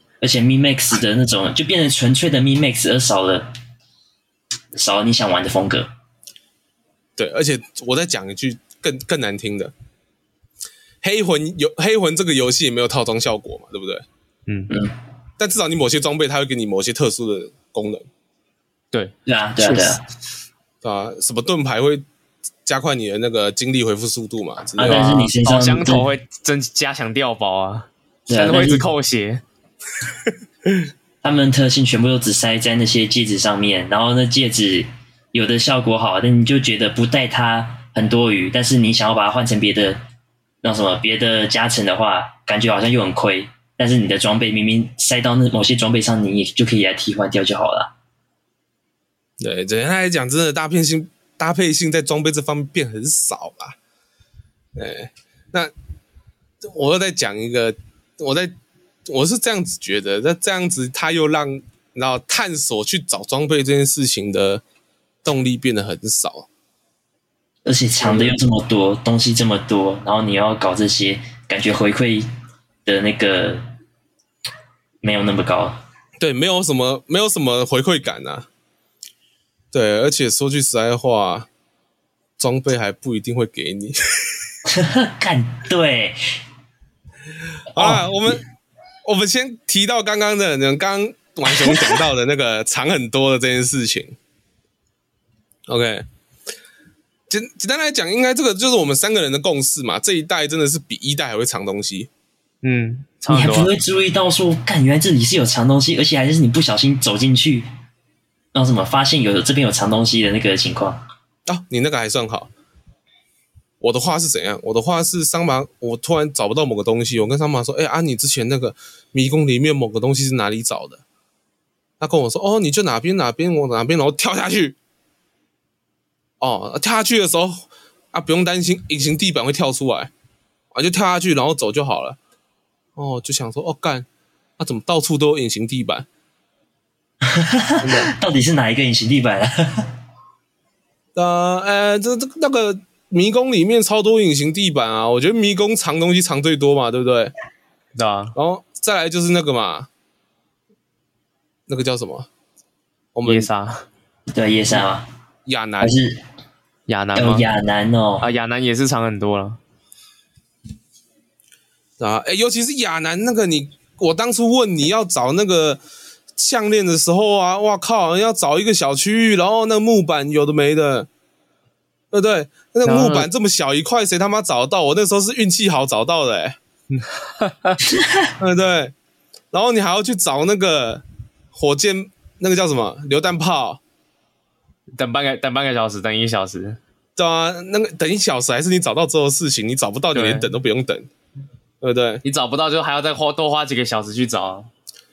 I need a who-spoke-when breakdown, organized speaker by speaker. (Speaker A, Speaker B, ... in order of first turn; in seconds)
Speaker A: 0.2-3.5, 4.7-5.9, 14.7-14.9, 19.2-20.0, 24.8-26.1, 28.3-28.9, 31.2-40.0, 40.6-47.9, 67.6-72.2, 72.8-73.6, 75.0-75.8, 84.7-86.2, 87.8-88.4, 91.5-92.0, 103.3-107.7, 108.5-111.0, 137.2-139.9, 154.3-155.1, 155.8-156.2, 157.1-158.2, 178.0-178.3
Speaker B: 7.2-9.7, 11.0-14.0, 15.4-18.1, 20.8-22.0, 22.6-25.2, 49.4-53.8, 54.8-55.7, 56.6-58.5, 59.1-64.6, 65.2-66.5, 68.0-68.3, 76.2-78.5, 79.7-81.5, 82.4-84.0, 87.7-88.4, 89.0-94.2, 95.7-96.0, 97.3-102.1, 111.5-112.5, 113.8-121.0, 122.0-124.8, 126.4-130.1, 130.7-132.2, 133.0-134.1, 134.6-136.1, 137.8-138.1, 141.2-147.3, 148.3-149.9, 151.7-152.3, 153.1-153.5, 155.4-155.9, 162.0-165.8, 166.4-171.1, 172.1-176.6, 178.4-178.9, 179.5-183.8, 187.2-191.1, 191.8-192.2
Speaker C: 14.5-14.7, 18.9-20.0, 24.9-29.4, 102.6-103.7, 147.9-148.3, 153.2-153.8, 156.9-157.4, 158.2-159.6, 172.8-173.3, 176.9-177.8, 185.0-186.8, 190.1-190.5, 192.2-194.7